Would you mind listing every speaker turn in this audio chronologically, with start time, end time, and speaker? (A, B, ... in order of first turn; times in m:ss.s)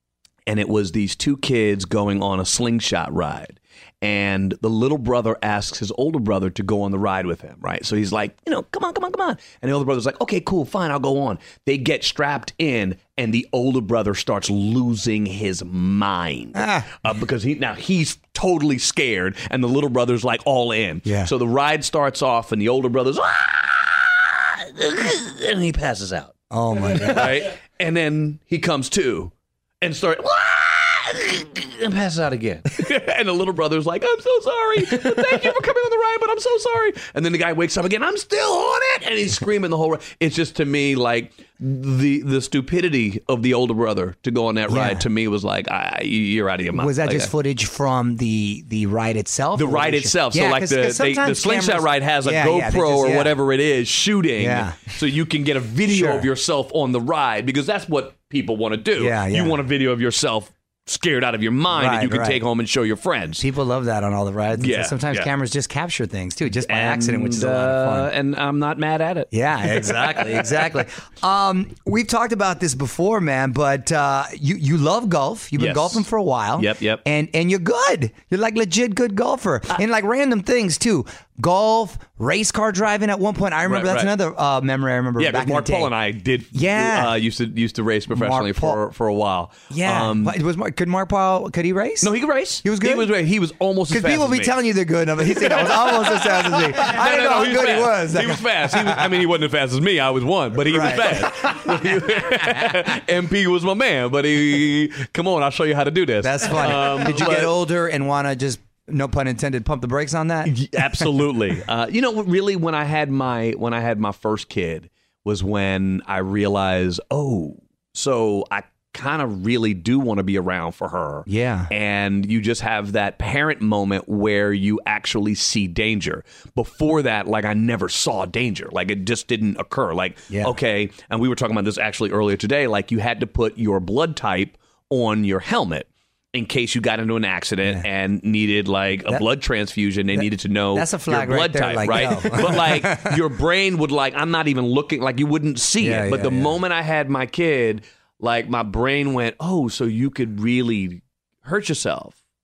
0:00.5-0:47.3 A
0:16.6-0:17.1 B
0:21.0-0:21.3 B
0:26.5-0:27.5 B
0:44.7-0:45.1 B
0:46.7-0:53.3 B
0:49.6-1:03.4 A
0:54.4-0:54.9 B
0:55.9-0:56.3 B
0:59.0-0:59.6 B
1:01.7-1:02.4 B
1:03.4-1:08.1 B
1:04.6-1:05.3 A
1:06.7-1:10.5 A
1:09.3-1:25.9 B
1:15.6-1:16.0 A
1:16.6-1:17.0 A
1:23.7-1:24.1 A
1:25.2-1:30.4 A
1:26.5-1:27.2 B
1:28.1-1:28.8 B
1:29.7-1:33.1 B
1:32.0-1:34.5 A
1:33.9-1:39.2 B
1:35.2-1:47.5 A
1:40.6-1:42.8 B
1:46.2-1:51.1 B
1:50.5-2:32.2 A
2:01.3-2:01.7 B
2:20.2-2:23.2 B
2:25.8-2:26.6 B